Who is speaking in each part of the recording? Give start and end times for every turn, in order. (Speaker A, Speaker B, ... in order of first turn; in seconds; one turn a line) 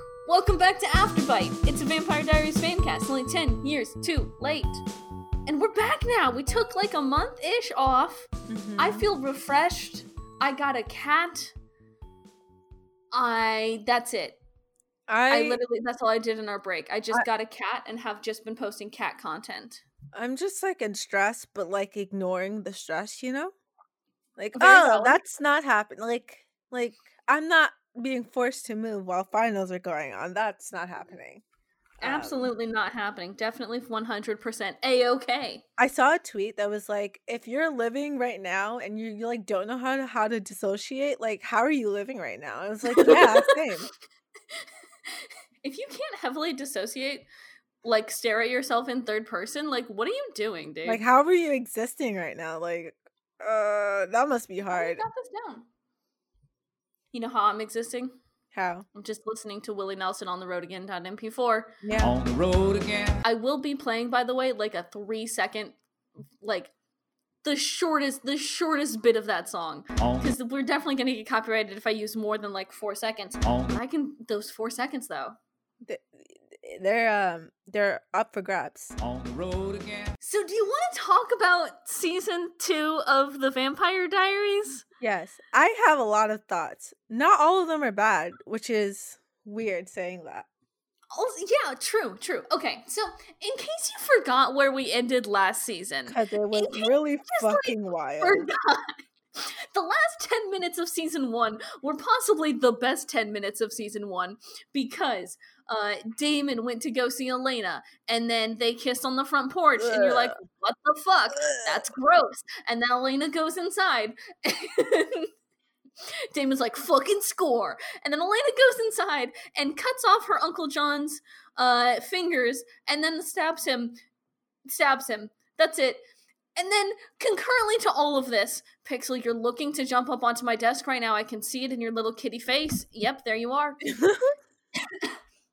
Speaker A: 0.3-4.8
Speaker A: 5.5-11.5
Speaker B: 8.5-9.0
Speaker A: 13.1-14.4
Speaker B: 15.1-15.6
Speaker A: 15.3-19.8
Speaker B: 20.1-23.5
Speaker B: 24.4-31.4
Speaker A: 24.6-25.2
Speaker B: 32.0-32.5
Speaker A: 32.0-35.6
Speaker B: 35.8-43.9
Speaker A: 42.9-43.5
Speaker A: 45.1-47.3
Speaker A: 47.8-51.0
Speaker B: 50.9-55.0
Speaker A: 54.7-55.7
Speaker A: 57.1-58.2
Speaker B: 58.5-58.9
Speaker A: 59.0-61.8
Speaker B: 61.8-62.1
Speaker C: 62.0-63.2
Speaker A: 63.2-65.8
Speaker A: 66.4-66.7
Speaker A: 67.4-75.4
Speaker C: 70.0-70.3
Speaker C: 73.4-73.8
Speaker B: 75.8-79.0
Speaker C: 79.0-80.1
Speaker A: 80.2-84.8
Speaker B: 85.0-90.5
Speaker A: 91.1-115.3
Speaker B: 96.1-98.5
Speaker B: 109.8-110.4
Speaker B: 111.3-111.8
Speaker A: 116.3-124.0
Speaker A: 124.7-126.0
Speaker A: 126.6-133.9
Speaker B: 133.9-134.3